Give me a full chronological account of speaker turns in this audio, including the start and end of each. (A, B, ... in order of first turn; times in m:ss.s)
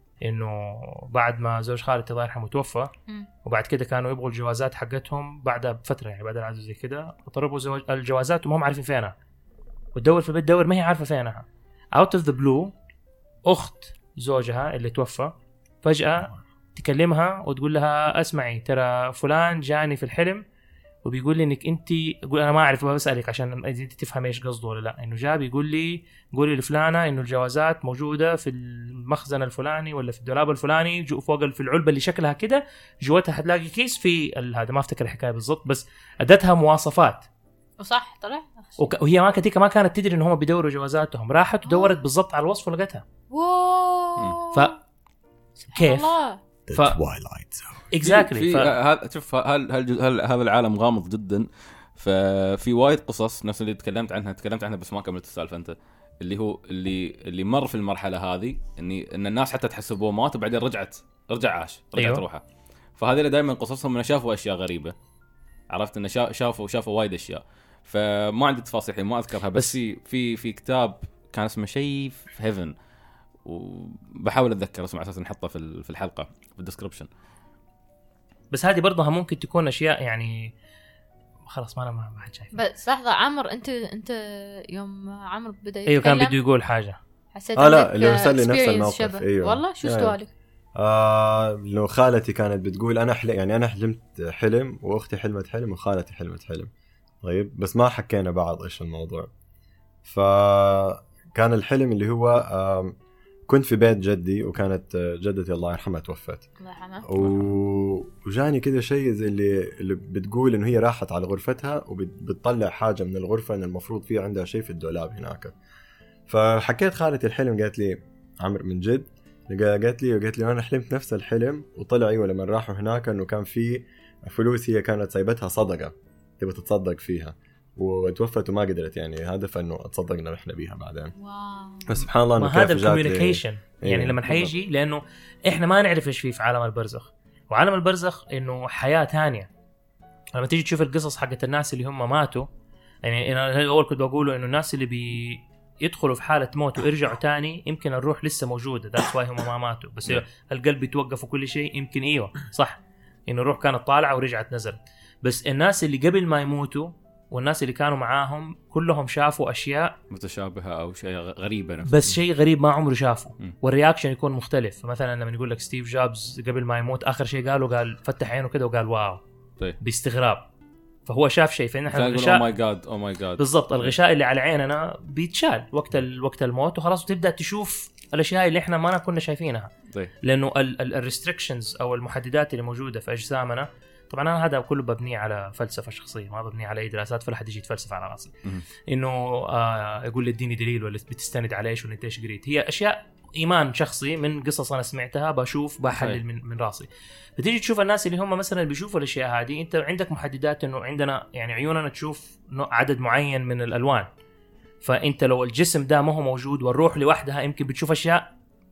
0:00.2-0:02.9 A
0:03.4-0:09.2 A
0:10.0-0:12.7 A
0:13.5-0:20.4 A
0:21.0-0:37.3 A
0:37.8-0:38.9 B
0:38.8-0:43.0 A
0:41.7-0:42.0 B
0:43.3-0:44.8 B
0:45.7-0:46.4 B
0:45.7-0:46.1 A
0:46.7-0:47.8 C
0:47.9-0:48.7 A
0:48.0-1:02.4 D
1:02.0-1:02.2 A
1:03.0-1:04.9 D
1:05.7-1:12.7 D
1:13.4-1:17.1 D
1:18.5-1:20.5 A
1:21.5-1:22.6 A
1:22.5-1:26.4 B
1:25.9-1:27.0 A
1:27.3-1:30.3 B
1:27.6-1:30.2 C
1:30.8-1:36.7 C
1:37.2-1:39.3 C
1:40.0-1:42.9 C
1:43.5-1:46.5 C
1:46.6-1:47.1 B
1:47.0-1:55.5 C
1:47.2-1:47.5 D
1:56.3-2:11.1 C
2:11.2-2:11.8 B
2:11.8-2:14.5 C
2:12.4-2:19.5 A
2:20.4-2:22.5 A
2:23.0-2:40.0 A
2:40.1-2:42.2 D
2:41.9-2:49.2 A
2:49.8-2:50.5 A
2:51.1-2:52.4 A
2:51.9-2:54.0 D
2:53.4-2:59.7 A
3:00.2-3:08.3 A
3:08.9-3:24.1 A
3:24.8-3:28.3 A